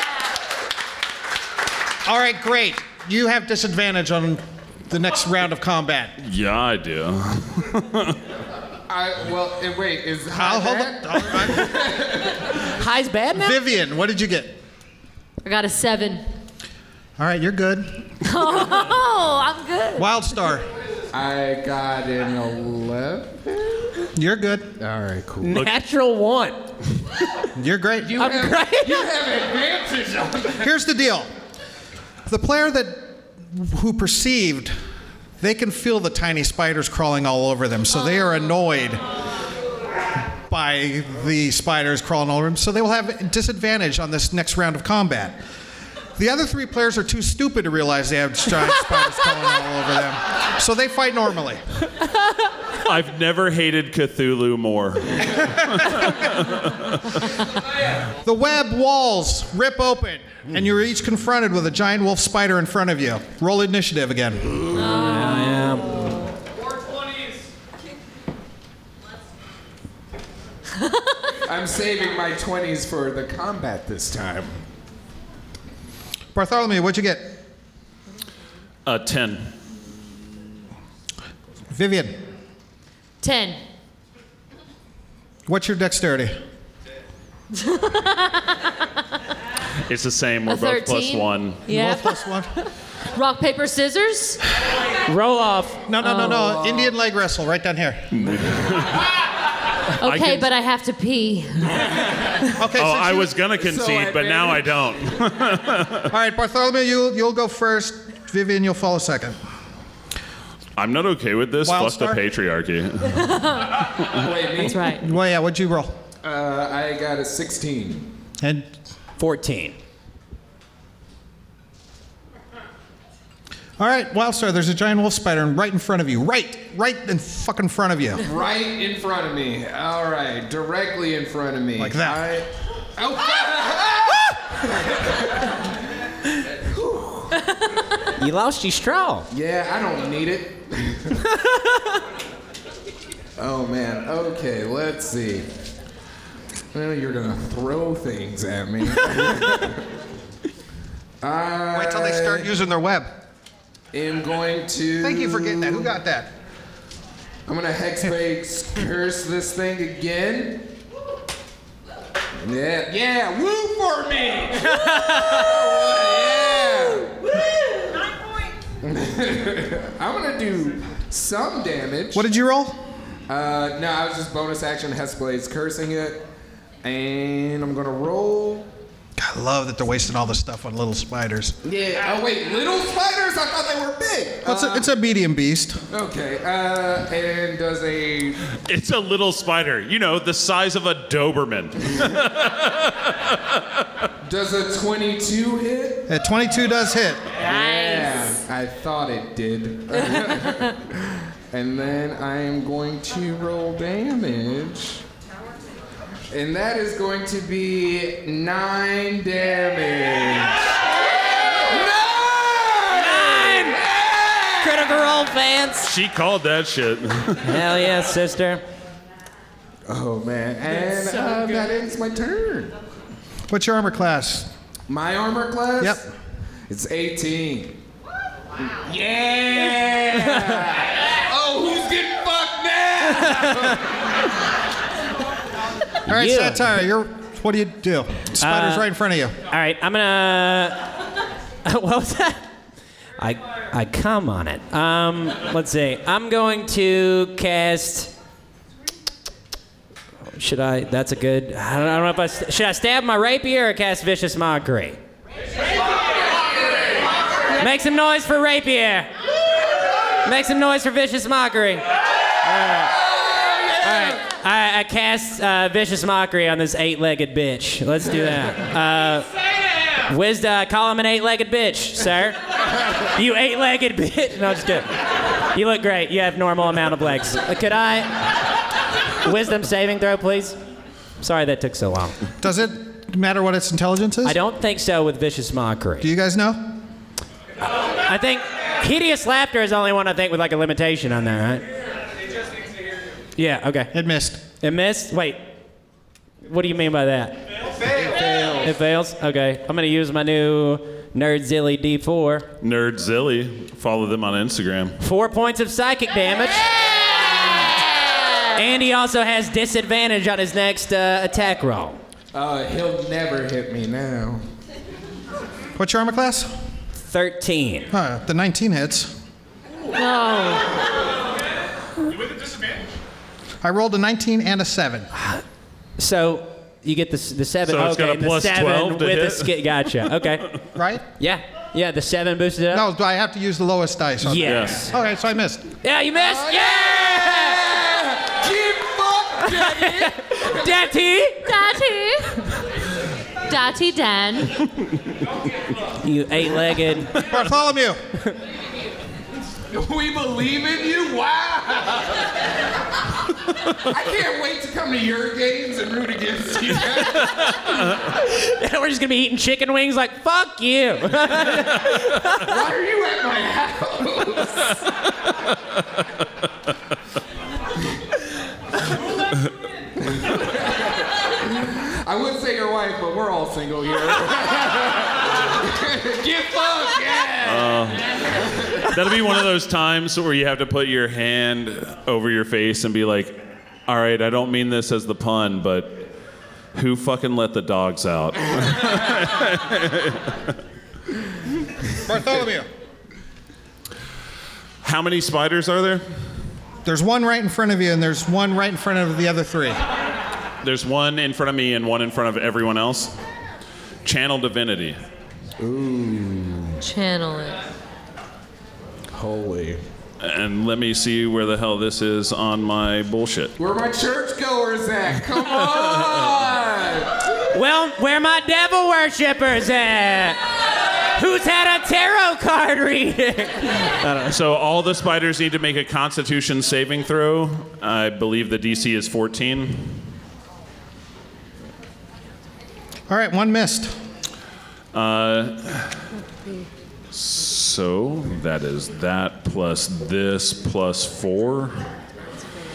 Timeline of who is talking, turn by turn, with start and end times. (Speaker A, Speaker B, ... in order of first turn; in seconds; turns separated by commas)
Speaker A: 2.0-6.1, Speaker B: 6.2-8.2, Speaker C: 8.9-12.6, Speaker A: 10.3-11.8, Speaker D: 12.7-13.6, Speaker A: 13.3-14.6, Speaker E: 15.4-16.2, Speaker A: 17.2-18.1, Speaker E: 18.2-20.1, Speaker A: 20.0-20.7, Speaker C: 21.1-23.9, Speaker A: 24.2-24.7, Speaker C: 24.8-25.6, Speaker D: 25.4-26.6, Speaker A: 27.6-28.2, Speaker C: 28.0-30.7, Speaker D: 28.2-29.1, Speaker A: 30.6-31.3, Speaker A: 32.3-34.8, Speaker A: 35.4-39.0, Speaker A: 40.5-45.4, Speaker A: 46.2-51.6, Speaker B: 52.8-57.2, Speaker A: 58.2-64.5, Speaker C: 64.5-65.1, Speaker D: 64.8-66.1, Speaker E: 64.8-65.5, Speaker E: 70.8-71.3, Speaker C: 71.5-74.6, Speaker A: 76.3-77.4, Speaker B: 78.9-79.5, Speaker A: 81.7-82.2, Speaker E: 83.2-83.6, Speaker A: 85.5-86.4, Speaker E: 87.5-88.8, Speaker B: 89.9-91.6, Speaker E: 90.5-94.4, Speaker A: 91.7-92.5, Speaker D: 95.1-95.8, Speaker A: 95.9-98.1, Speaker E: 96.0-96.3, Speaker C: 96.3-96.9, Speaker B: 98.1-99.1, Speaker E: 100.0-101.8, Speaker B: 100.0-100.5, Speaker A: 102.6-103.3, Speaker B: 102.8-106.1, Speaker C: 103.6-104.8, Speaker A: 106.1-109.4, Speaker B: 110.8-113.6, Speaker A: 111.6-112.2, Speaker E: 113.2-113.8, Speaker C: 114.1-114.8, Speaker E: 114.6-115.0, Speaker A: 115.0-116.0, Speaker C: 116.2-118.1, Speaker A: 118.4-118.7, Speaker D: 119.2-119.8, Speaker A: 123.8-128.2, Speaker C: 128.2-135.6, Speaker A: 131.8-132.2, Speaker C: 136.6-137.4, Speaker D: 138.2-139.3, Speaker C: 139.3-141.2, Speaker D: 141.3-142.0, Speaker C: 143.4-145.5, Speaker C: 146.7-149.8, Speaker C: 151.2-152.5, Speaker A: 151.7-153.2, Speaker C: 153.9-155.9, Speaker A: 155.0-156.3, Speaker C: 157.5-160.7, Speaker C: 162.4-167.2, Speaker D: 164.7-165.7, Speaker C: 168.8-172.2, Speaker A: 172.1-172.9, Speaker C: 173.3-176.2, Speaker C: 176.8-178.7, Speaker A: 179.2-181.6, Speaker C: 181.6-184.9, Speaker A: 184.4-185.8, Speaker C: 185.9-188.4, Speaker B: 188.6-193.8, Speaker C: 194.2-196.1, Speaker A: 196.1-197.2, Speaker C: 197.4-205.0, Speaker E: 197.5-198.1, Speaker C: 206.3-210.7, Speaker C: 211.6-214.9, Speaker D: 212.9-213.8, Speaker D: 214.6-215.9, Speaker B: 215.8-217.6, Speaker D: 217.4-218.6, Speaker C: 219.9-222.8, Speaker D: 220.7-221.6, Speaker A: 223.5-224.5, Speaker C: 224.9-226.1, Speaker C: 226.7-227.8, Speaker C: 228.7-233.9, Speaker D: 230.1-230.6, Speaker A: 236.1-239.4, Speaker D: 236.1-236.8, Speaker D: 238.4-238.9, Speaker D: 239.5-240.9, Speaker D: 241.6-242.4, Speaker D: 243.2-248.1, Speaker D: 250.3-255.0, Speaker D: 257.6-259.1, Speaker D: 260.2-261.9, Speaker D: 262.4-263.1, Speaker C: 263.1-263.9, Speaker D: 263.8-269.3, Speaker D: 270.1-278.4, Speaker D: 279.2-280.6, Speaker D: 281.2-282.2, Speaker A: 282.4-284.4, Speaker D: 284.2-286.1, Speaker A: 286.0-286.8, Speaker D: 287.8-291.6, Speaker D: 293.4-293.9, Speaker A: 293.9-294.4, Speaker D: 294.6-295.5, Speaker D: 296.4-297.5, Speaker C: 297.9-298.7, Speaker D: 298.6-302.5, Speaker B: 302.6-305.0, Speaker D: 305.0-306.7, Speaker D: 308.5-312.0, Speaker C: 312.3-314.4, Speaker A: 315.8-316.5, Speaker D: 317.0-317.9, Speaker A: 317.9-319.1, Speaker E: 319.9-320.8, Speaker A: 323.6-325.1, Speaker D: 325.1-325.4, Speaker D: 326.0-330.6, Speaker B: 327.7-329.6, Speaker A: 330.8-331.1, Speaker D: 331.2-332.9, Speaker A: 332.7-335.7, Speaker D: 334.2-334.9, Speaker B: 334.4-334.9, Speaker D: 335.8-337.8, Speaker C: 336.2-340.9, Speaker D: 339.5-341.6, Speaker E: 341.4-342.4, Speaker E: 343.5-344.6, Speaker D: 345.9-347.3, Speaker A: 347.2-348.0, Speaker C: 349.7-352.2, Speaker C: 353.8-357.4, Speaker D: 357.5-362.6, Speaker C: 362.4-364.8, Speaker C: 370.0-377.9, Speaker B: 377.4-378.1, Speaker C: 378.4-378.9, Speaker B: 378.8-386.1, Speaker B: 386.7-390.5, Speaker A: 392.0-392.7, Speaker B: 394.8-396.0, Speaker A: 396.9-399.8, Speaker B: 400.6-403.1, Speaker B: 404.0-405.0, Speaker C: 405.6-406.8, Speaker E: 406.8-407.6, Speaker C: 409.1-409.8, Speaker B: 410.2-413.5, Speaker C: 413.6-417.2, Speaker D: 417.5-420.4, Speaker D: 421.1-424.4, Speaker B: 424.3-430.0, Speaker A: 433.1-433.9, Speaker B: 434.9-436.0, Speaker B: 437.1-441.8